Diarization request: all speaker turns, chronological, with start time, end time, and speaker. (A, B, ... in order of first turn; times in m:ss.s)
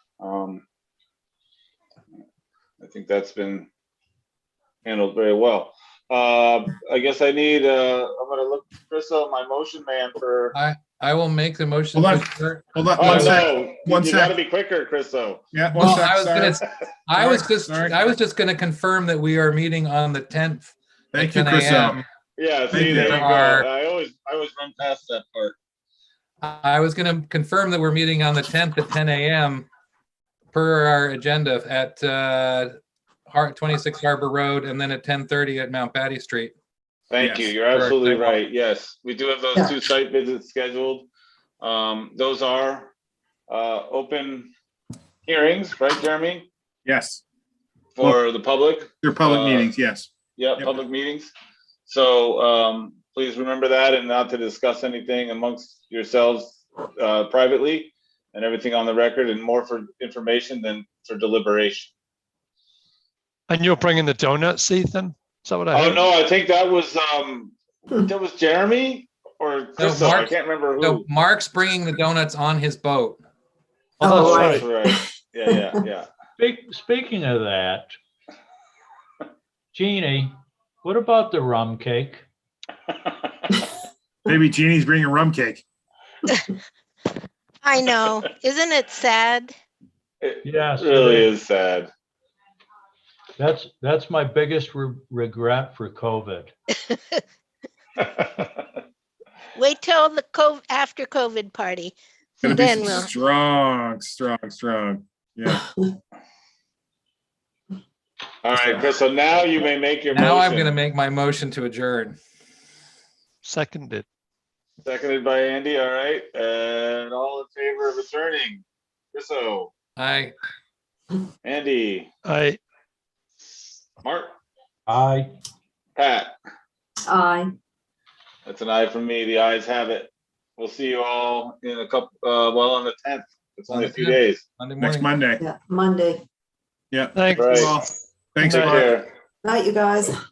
0:00.2-0:00.6 A
0:02.8-0:03.7 A
0:04.8-0:10.5 A
0:10.5-0:13.4 B
0:11.9-0:14.3 C
0:13.0-0:15.4 A
0:15.5-0:16.6 C
0:15.7-0:22.0 B
0:17.1-0:18.1 C
0:21.1-0:22.0 C
0:22.4-0:25.6 A
0:22.7-0:23.2 C
0:22.8-0:23.7 B
0:26.4-0:29.7 B
0:30.5-0:32.7 B
0:33.3-0:36.5 B
0:37.1-0:41.1 A
0:37.2-0:37.5 C
0:37.7-0:38.4 B
0:41.6-0:42.9 A
0:43.5-0:44.5 A
0:45.2-0:46.5 A
0:46.8-0:47.2 C
0:48.0-0:49.7 A
0:49.0-0:50.1 C
0:50.4-0:51.3 A
0:51.9-1:01.9 A
1:03.5-1:06.1 D
1:05.7-1:11.0 A
1:09.8-1:13.2 B
1:14.0-1:15.0 E
1:14.0-1:14.7 D
1:14.2-1:16.1 A
1:16.4-1:17.9 F
1:19.7-1:22.2 F
1:22.9-1:23.6 A
1:24.2-1:25.6 C
1:27.6-1:29.5 G
1:30.2-1:31.9 A
1:30.4-1:31.3 F
1:33.4-1:36.5 F
1:38.0-1:38.5 A
1:39.6-1:43.0 G
1:42.4-1:45.6 C
1:48.4-1:50.7 A
1:48.5-1:48.8 C
1:50.1-1:52.2 B
1:53.4-1:54.0 D
1:54.8-1:59.7 A
2:00.0-2:00.3 B
2:01.4-2:02.1 A
2:02.2-2:02.6 D
2:04.0-2:04.3 A
2:04.9-2:05.3 F
2:06.0-2:06.3 A
2:07.0-2:07.5 E
2:08.4-2:14.4 A
2:13.7-2:15.1 B
2:14.8-2:15.4 C
2:15.4-2:16.2 E
2:16.9-2:19.0 C
2:17.1-2:17.8 D
2:17.3-2:17.7 A
2:18.4-2:19.1 A
2:18.5-2:18.8 D
2:19.4-2:20.2 E